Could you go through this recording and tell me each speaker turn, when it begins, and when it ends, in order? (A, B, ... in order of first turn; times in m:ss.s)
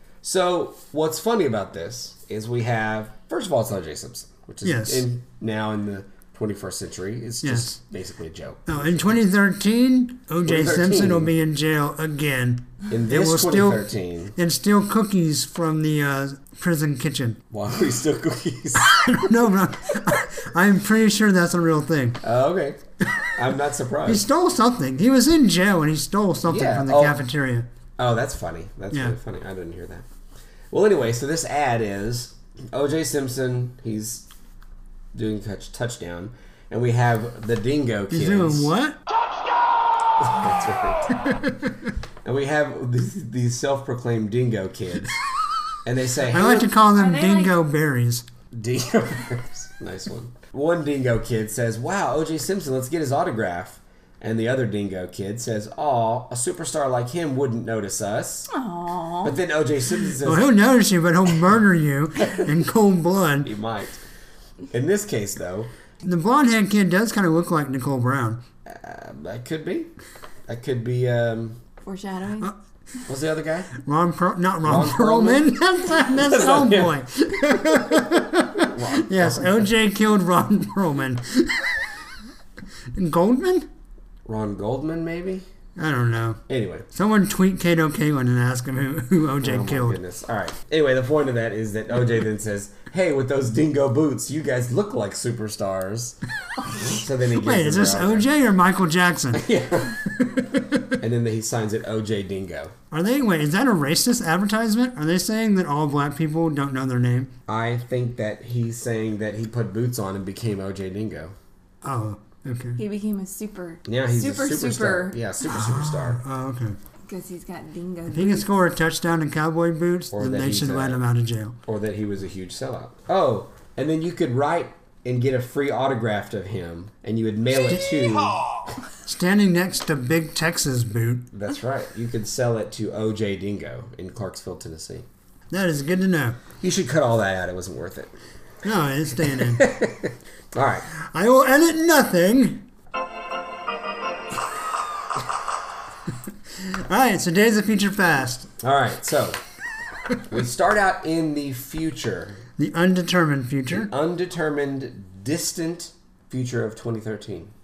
0:00.2-0:09.0 A
0:04.6-0:05.0 B
0:07.4-0:07.8 B
0:08.7-0:17.4 B
0:10.4-0:11.3 A
0:12.9-0:14.4 A
0:17.5-0:18.9 A
0:18.8-0:22.2 B
0:22.2-0:24.2 A
0:24.1-0:27.7 B
0:26.5-0:27.2 A
0:28.0-0:30.1 A
0:30.7-0:34.3 A
0:35.1-0:38.7 A
0:38.1-0:39.0 B
0:40.2-0:41.2 A
0:42.2-0:45.2 A
0:45.8-0:46.7 A
0:46.3-0:48.2 B
0:46.9-0:47.6 C
0:48.5-0:58.5 A
0:58.5-0:59.4 C
0:59.2-1:00.5 A
1:00.2-1:03.5 B
1:03.4-1:04.0 A
1:04.7-1:05.7 A
1:06.0-1:08.4 B
1:08.6-1:09.9 A
1:10.5-1:11.6 A
1:11.8-1:12.5 C
1:13.1-1:13.8 A
1:13.8-1:21.9 B
1:14.6-1:15.5 A
1:16.0-1:17.0 A
1:18.5-1:19.7 A
1:22.9-1:23.7 B
1:24.2-1:25.5 A
1:25.8-1:26.4 B
1:26.5-1:26.9 A
1:26.9-1:30.0 B
1:29.4-1:36.2 A
1:36.7-1:38.3 A
1:37.3-1:39.5 B
1:39.3-1:40.0 A
1:40.2-1:40.9 B
1:41.0-1:42.7 A
1:42.9-1:47.3 B
1:47.5-1:51.4 A
1:51.8-1:52.8 B
1:52.8-1:55.2 C
1:53.8-1:56.2 A
1:55.5-1:56.8 B
1:57.1-1:58.5 C
1:58.1-2:01.6 B
2:00.1-2:01.0 A
2:01.6-2:08.6 A
2:09.0-2:11.3 B
2:11.3-2:15.1 A
2:15.5-2:16.4 B
2:16.6-2:18.2 A
2:18.6-2:19.7 B
2:19.2-2:20.9 A
2:21.0-2:22.7 B
2:26.6-2:28.5 B
2:28.6-2:29.4 A
2:30.3-2:32.4 A
2:32.6-2:33.9 B
2:33.7-2:37.5 A